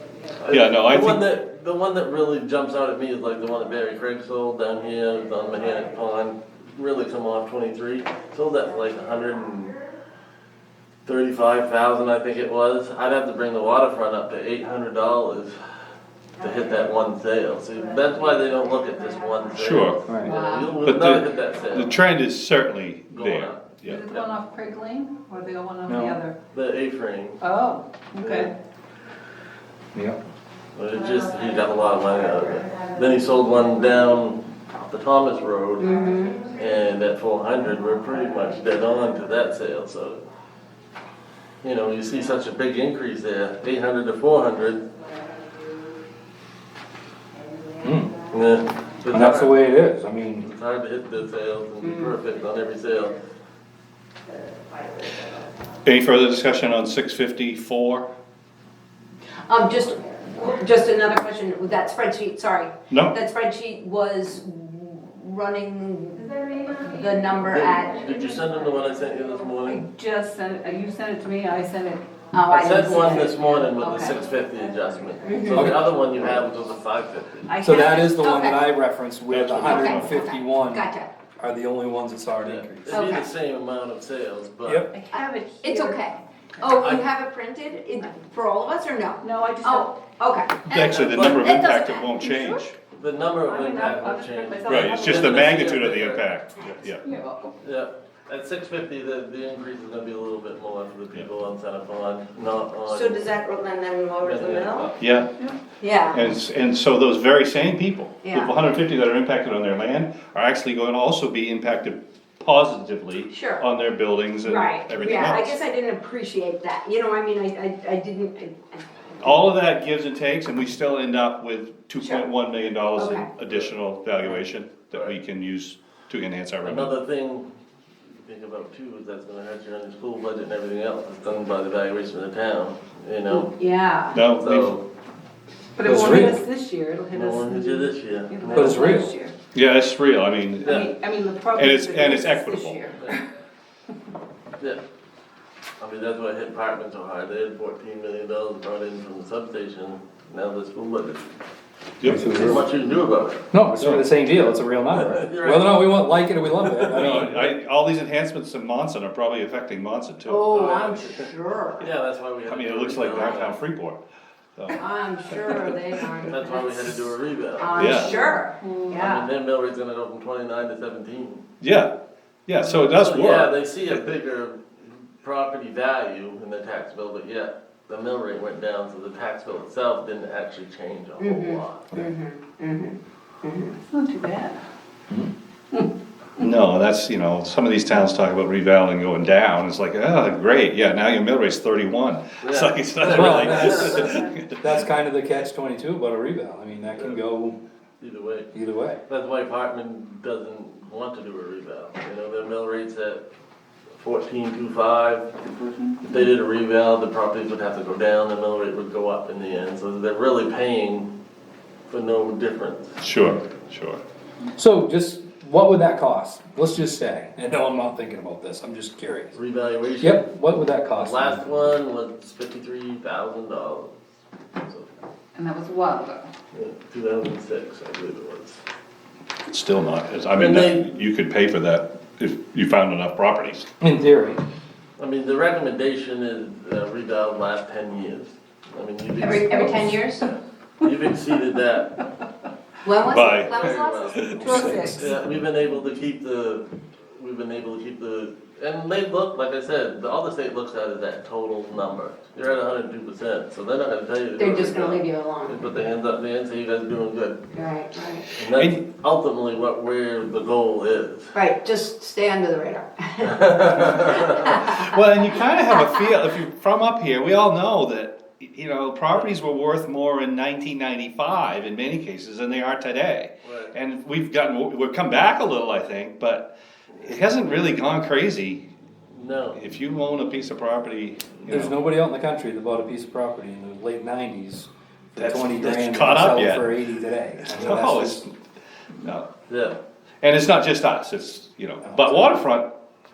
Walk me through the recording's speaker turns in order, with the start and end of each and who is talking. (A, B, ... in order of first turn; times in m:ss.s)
0:00.4-0:09.8 A
0:00.5-0:01.2 B
0:11.0-0:15.5 A
0:16.4-0:21.9 A
0:19.5-0:20.1 B
0:20.1-0:20.3 C
0:20.2-0:20.8 D
0:20.8-0:24.1 B
0:23.1-0:24.3 A
0:23.8-0:26.4 D
0:25.9-0:26.2 C
0:26.5-0:27.4 A
0:27.4-0:28.5 D
0:28.2-0:28.5 A
0:30.7-0:40.2 A
0:35.8-0:36.5 E
0:41.6-0:44.8 A
0:47.8-0:48.2 C
0:48.3-0:49.6 A
0:49.1-0:50.5 C
0:50.4-0:53.2 A
0:51.8-0:52.2 E
0:55.8-0:58.1 B
0:59.5-1:08.2 E
1:02.9-1:03.1 B
1:07.5-1:09.8 A
1:09.6-1:12.0 D
1:12.3-1:13.7 E
1:12.5-1:17.6 A
1:13.7-1:14.2 D
1:15.2-1:15.7 E
1:15.5-1:15.8 C
1:17.5-1:18.4 D
1:17.6-1:23.0 C
1:18.1-1:18.6 E
1:19.3-1:20.2 B
1:19.6-1:21.1 E
1:22.4-1:24.9 A
1:22.9-1:23.3 E
1:24.6-1:24.9 C
1:24.9-1:26.1 D
1:25.1-1:32.2 E
1:29.2-1:30.0 D
1:30.6-1:32.7 B
1:30.8-1:31.4 A
1:32.2-1:32.6 D
1:33.0-1:36.2 A
1:33.4-1:35.6 D
1:34.7-1:37.0 B
1:37.0-1:37.6 D
1:37.6-1:43.3 A
1:42.9-1:44.9 E
1:44.2-1:45.0 A
1:45.0-1:45.3 B
1:45.8-1:46.2 E
1:46.1-1:55.6 B
1:48.2-1:48.5 E
1:53.3-1:53.6 E
1:54.4-1:59.5 E
1:59.2-2:06.9 B
2:02.0-2:02.3 E
2:03.0-2:03.3 E
2:04.9-2:05.2 A
2:06.6-2:07.5 A
2:08.2-2:13.5 A
2:13.3-2:14.2 E
2:14.1-2:14.7 B
2:14.2-2:14.8 A
2:15.8-2:19.3 D
2:15.8-2:16.4 C
2:17.1-2:18.9 A
2:18.5-2:19.1 C
2:19.5-2:20.9 B
2:20.6-2:23.2 D
2:20.6-2:20.9 A
2:21.5-2:22.9 B
2:25.8-2:31.3 A
2:32.0-2:32.6 B
2:32.0-2:32.6 C
2:32.3-2:33.4 A
2:33.5-2:37.5 C
2:33.8-2:34.0 B
2:34.9-2:36.1 A
2:36.6-2:37.3 A
2:36.9-2:40.5 B
2:40.2-2:41.9 E
2:40.5-2:41.3 A
2:41.8-2:43.6 A
2:42.4-2:44.0 B
2:44.7-2:47.0 E
2:46.3-2:48.1 A
2:47.6-2:49.3 E
2:47.7-2:48.1 B
2:48.1-2:49.0 D
2:48.9-2:51.4 A
2:51.6-2:51.9 B
2:52.5-2:53.5 B
2:52.6-3:01.9 A
3:01.2-3:03.8 E
3:03.8-3:04.6 D
3:06.4-3:14.6 B
3:12.4-3:14.2 A
3:13.0-3:17.6 C
3:18.0-3:18.5 A
3:18.5-3:19.0 C
3:19.1-3:23.2 A
3:24.0-3:25.3 A
3:25.5-3:25.9 D
3:26.0-3:31.1 A
3:31.9-3:32.9 A
3:33.0-3:34.0 B
3:34.6-3:39.4 C
3:39.3-3:40.3 A
3:40.0-3:41.5 C
3:40.9-3:43.9 A
3:44.5-3:44.9 A
3:45.4-3:46.3 D
3:46.5-3:48.6 A
3:49.5-3:53.7 B
3:50.3-3:50.8 A
3:53.8-3:54.4 C
3:55.0-4:02.0 A
3:59.2-4:00.3 E
4:02.8-4:04.3 E
4:03.0-4:04.9 B
4:03.2-4:17.4 A
4:04.4-4:05.1 D
4:04.6-4:05.1 C
4:14.4-4:15.6 E
4:17.5-4:18.2 E
4:18.3-4:18.8 B
4:18.4-4:21.3 A
4:21.3-4:24.9 E
4:23.2-4:24.6 A
4:24.5-4:38.6 B
4:33.4-4:33.7 A
4:39.1-4:39.6 A
4:39.5-4:41.7 B
4:41.5-4:48.2 C
4:45.2-4:46.6 B
4:47.4-4:48.3 B
4:49.0-4:49.3 B
4:49.5-4:49.8 A
4:50.2-4:52.7 B
4:51.8-4:52.3 C